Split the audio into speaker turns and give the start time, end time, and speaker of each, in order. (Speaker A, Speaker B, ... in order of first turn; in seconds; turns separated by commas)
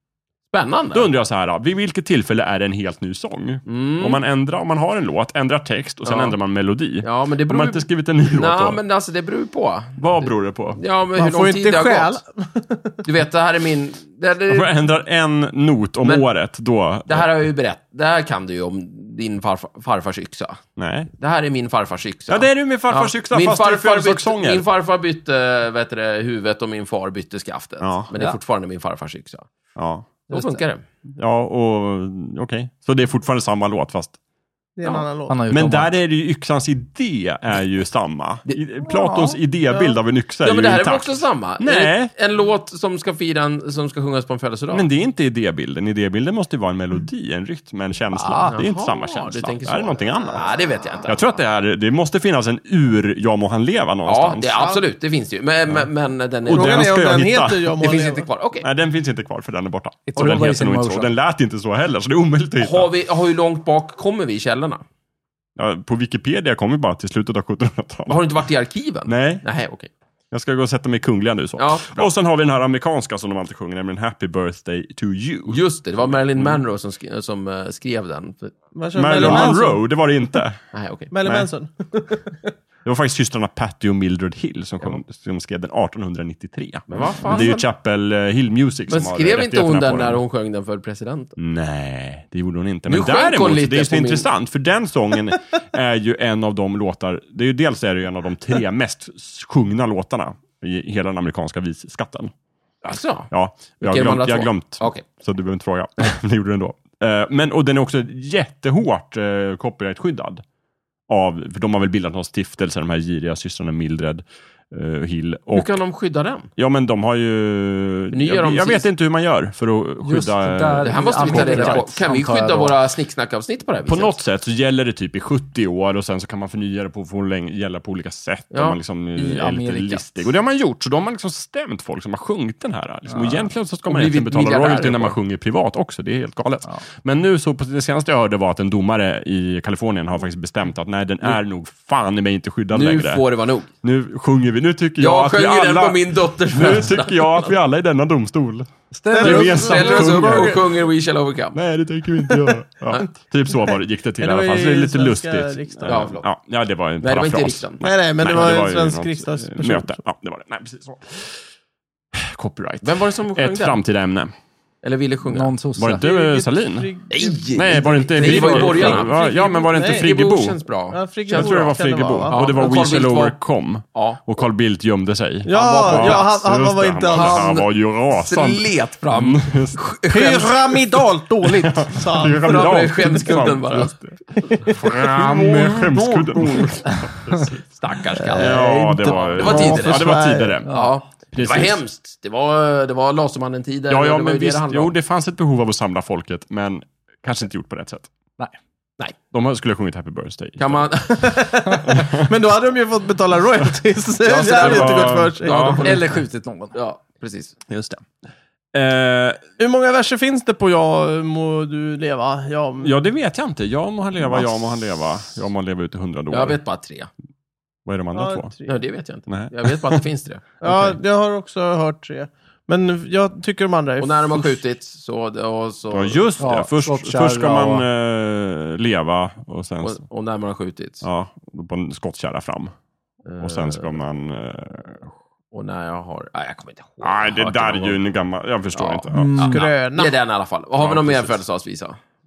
Speaker A: 0.5-1.1, Speaker B: 0.9-8.8, Speaker A: 3.6-4.2, Speaker A: 6.0-6.3, Speaker A: 7.0-12.2, Speaker B: 10.0-10.8, Speaker C: 11.1-13.0, Speaker A: 13.0-14.7, Speaker B: 14.5-17.3, Speaker A: 17.1-20.6, Speaker B: 20.8-21.1, Speaker A: 21.1-29.4, Speaker B: 22.3-24.6, Speaker B: 27.8-28.1, Speaker B: 29.8-30.1, Speaker A: 30.3-30.8, Speaker D: 30.3-30.6, Speaker B: 31.1-34.2, Speaker C: 34.8-35.4, Speaker D: 35.3-35.9, Speaker B: 35.5-42.1, Speaker D: 38.8-39.4, Speaker A: 40.4-44.9, Speaker B: 44.7-50.5, Speaker A: 48.2-51.2, Speaker B: 51.0-54.6, Speaker A: 54.0-56.9, Speaker B: 56.4-57.8, Speaker C: 56.5-58.2, Speaker A: 57.8-58.6, Speaker B: 58.6-62.9, Speaker D: 60.1-61.1, Speaker A: 62.6-64.8, Speaker B: 65.5-68.2, Speaker A: 68.1-69.9, Speaker B: 69.0-69.4, Speaker B: 70.3-76.6, Speaker A: 71.6-72.1, Speaker A: 75.5-78.5, Speaker C: 78.7-79.8, Speaker B: 78.9-80.6, Speaker A: 79.1-79.5, Speaker A: 80.7-81.1, Speaker C: 81.1-82.5, Speaker B: 82.8-90.2, Speaker A: 86.9-87.6, Speaker A: 88.9-91.3, Speaker B: 91.4-102.3, Speaker A: 92.9-94.3, Speaker A: 102.8-105.0, Speaker B: 103.3-110.4, Speaker B: 111.1-115.8, Speaker A: 115.5-116.5, Speaker B: 116.6-121.9, Speaker A: 118.1-118.9, Speaker D: 120.0-122.8, Speaker A: 120.8-124.2, Speaker B: 123.8-143.2, Speaker A: 128.5-128.8, Speaker D: 129.2-130.0, Speaker D: 133.1-133.4, Speaker A: 133.9-135.2, Speaker A: 142.7-143.7, Speaker B: 143.8-150.6, Speaker A: 145.0-147.5, Speaker D: 148.9-149.5, Speaker C: 149.1-150.7, Speaker A: 149.2-151.6, Speaker B: 151.5-161.4, Speaker C: 154.2-156.2, Speaker A: 155.8-156.3, Speaker A: 157.0-157.8, Speaker C: 157.8-160.0, Speaker B: 162.1-164.3, Speaker A: 162.8-163.8, Speaker A: 164.8-165.5, Speaker D: 165.2-166.0, Speaker B: 165.8-166.9, Speaker C: 165.9-170.1, Speaker A: 167.1-171.7, Speaker B: 167.5-170.6, Speaker D: 168.2-169.0, Speaker C: 170.9-172.4, Speaker B: 171.3-179.8, Speaker A: 172.3-173.4, Speaker A: 173.9-174.2, Speaker C: 175.4-177.5, Speaker A: 175.5-176.3, Speaker A: 177.1-181.0, Speaker C: 180.1-183.3, Speaker B: 181.4-187.6, Speaker A: 182.3-183.9, Speaker C: 184.4-184.8, Speaker A: 185.1-186.8, Speaker A: 187.7-194.9, Speaker C: 188.2-190.6, Speaker B: 188.3-190.7, Speaker D: 190.7-191.0, Speaker B: 191.3-191.8, Speaker B: 193.9-198.1, Speaker B: 199.3-200.9, Speaker A: 200.6-201.3, Speaker C: 201.1-205.8, Speaker B: 201.8-202.3, Speaker A: 204.2-207.6, Speaker B: 204.5-205.9, Speaker D: 205.6-206.7, Speaker B: 207.7-208.1, Speaker B: 208.7-209.4, Speaker C: 209.6-212.9, Speaker B: 212.8-216.6, Speaker A: 216.3-217.1, Speaker B: 217.8-218.5, Speaker C: 218.1-218.8, Speaker A: 218.7-221.0, Speaker B: 219.3-220.0, Speaker C: 220.6-224.6, Speaker A: 224.0-226.5, Speaker B: 225.9-230.0, Speaker D: 226.4-227.9, Speaker A: 229.8-231.0, Speaker B: 231.0-232.7, Speaker A: 233.2-233.9, Speaker B: 233.4-235.1, Speaker A: 235.5-238.0, Speaker B: 237.0-239.5, Speaker A: 238.7-242.0, Speaker D: 239.1-239.6, Speaker C: 239.5-240.2, Speaker B: 240.8-241.4